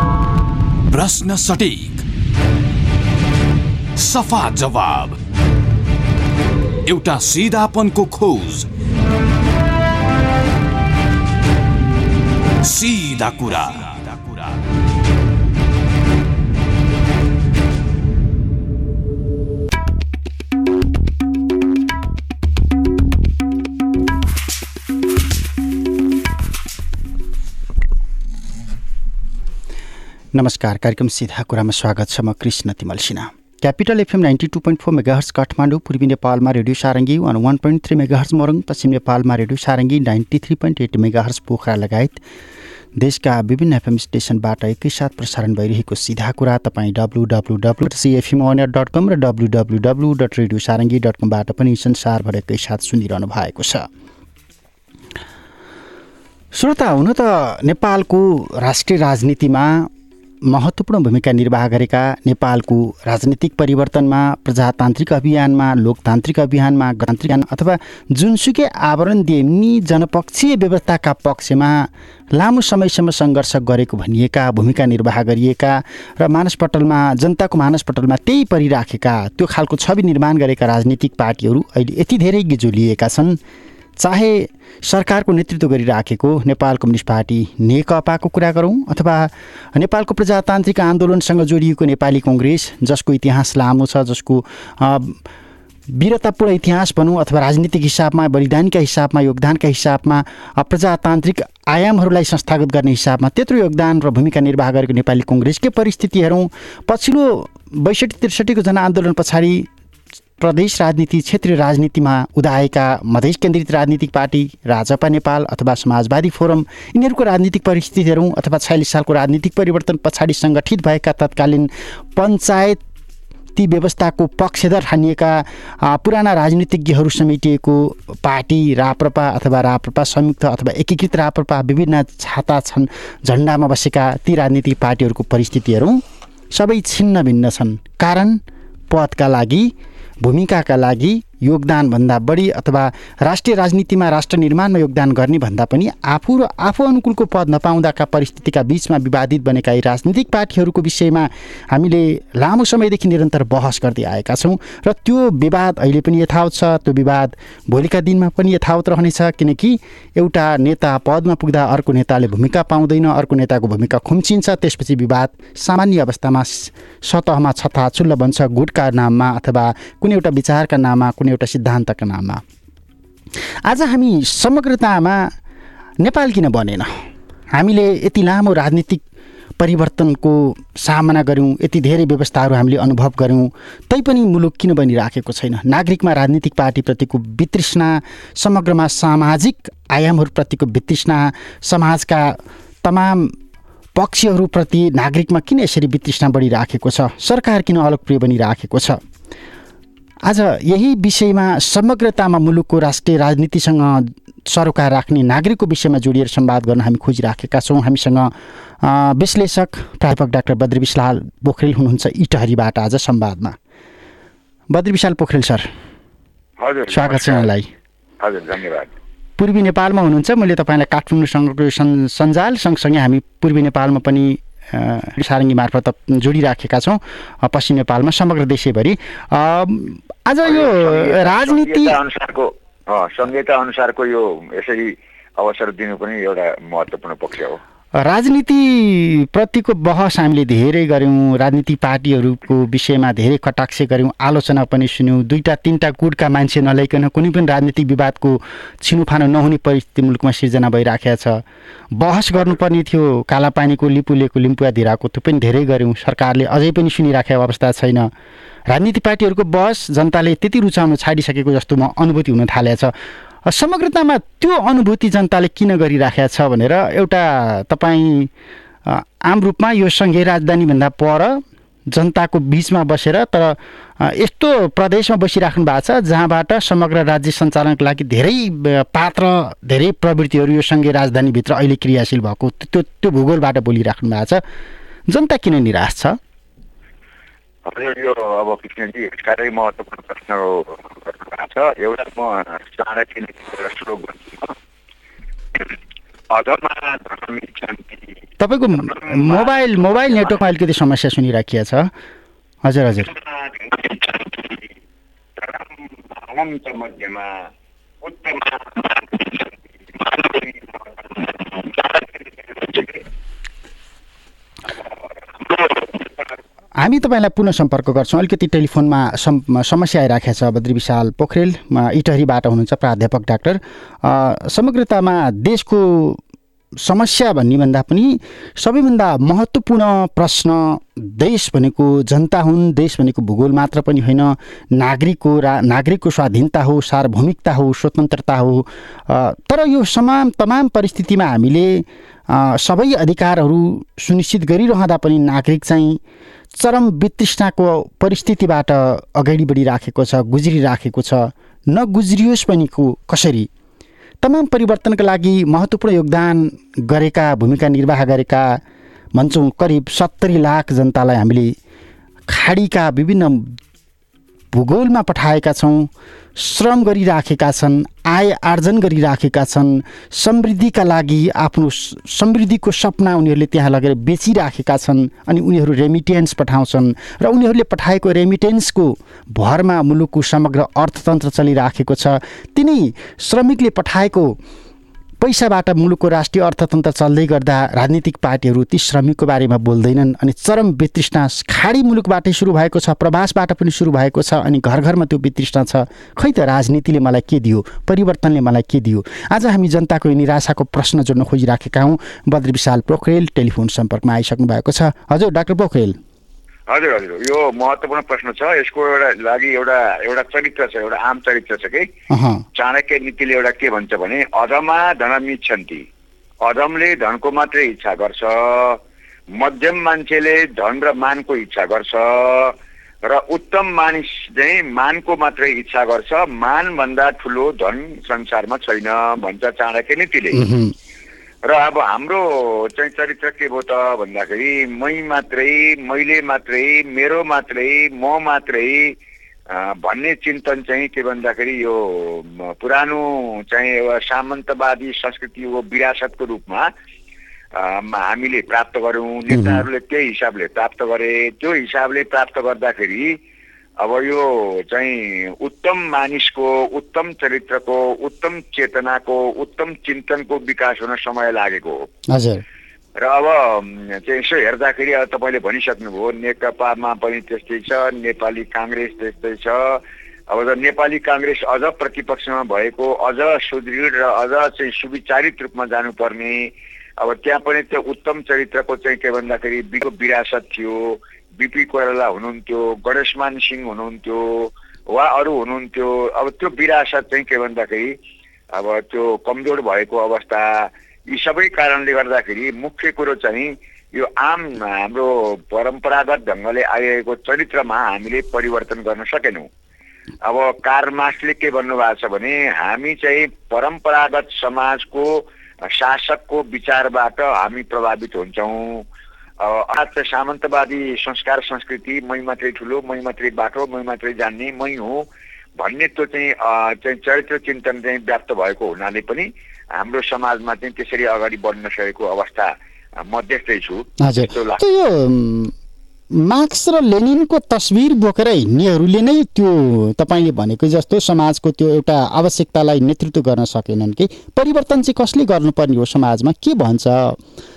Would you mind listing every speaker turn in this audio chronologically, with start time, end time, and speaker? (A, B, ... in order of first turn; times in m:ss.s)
0:00.9-0:02.0 A
0:04.0-0:05.2 A
0:06.9-0:08.7 A
0:12.6-0:14.6 A
0:30.3-0:42.2 B
0:43.0-0:53.9 B
0:56.6-0:59.9 B
1:00.5-1:23.4 B
1:24.0-1:35.2 B
1:35.9-1:49.7 B
1:50.4-2:02.8 B
2:03.6-2:16.0 B
2:16.5-2:19.7 B
2:20.2-2:52.4 B
2:53.7-2:55.3 B
2:56.0-2:56.9 B
2:57.6-2:59.0 B
2:59.6-3:13.4 B
3:14.0-3:19.0 B
3:20.3-3:28.3 B
3:28.8-3:33.6 B
3:34.7-3:35.7 B
3:36.6-3:37.5 C
3:36.9-3:37.7 B
3:38.2-3:38.9 C
3:39.4-3:52.0 B
3:50.4-3:57.6 C
3:58.0-4:11.4 B
4:12.0-4:18.1 B
4:18.7-4:22.9 B
4:23.5-4:28.3 B
4:28.9-4:31.4 B
4:31.9-4:44.4 B
4:45.1-4:46.2 B
4:47.7-4:54.6 C
4:56.3-4:58.1 C
4:58.4-5:01.9 B
4:58.7-5:00.4 C
5:02.6-5:03.1 B
5:03.0-5:04.7 C
5:05.4-5:07.5 C
5:08.0-5:13.0 C
5:15.4-5:16.1 C
5:16.8-5:26.2 B
5:26.8-5:46.0 B
5:46.5-5:53.5 B
5:54.2-5:58.6 B
5:59.2-6:01.5 B
6:02.3-6:03.5 B
6:04.5-6:24.4 B
6:25.2-6:46.0 B
6:46.7-6:51.9 C
6:52.1-6:52.4 B
6:52.6-6:55.9 C
6:56.4-6:58.8 C
6:59.4-7:02.6 C
7:03.1-7:10.4 C
7:10.3-7:10.7 B
7:11.5-7:19.0 C
7:19.5-7:26.7 C
7:27.6-7:33.2 C
7:29.3-7:29.6 B
7:33.8-7:41.9 C
7:42.1-7:42.4 B
7:43.0-8:07.9 C
8:08.5-8:19.5 C
8:20.2-8:28.9 C
8:29.4-8:35.1 C
8:35.6-8:44.6 C
8:44.0-8:45.5 B
8:46.1-8:57.2 B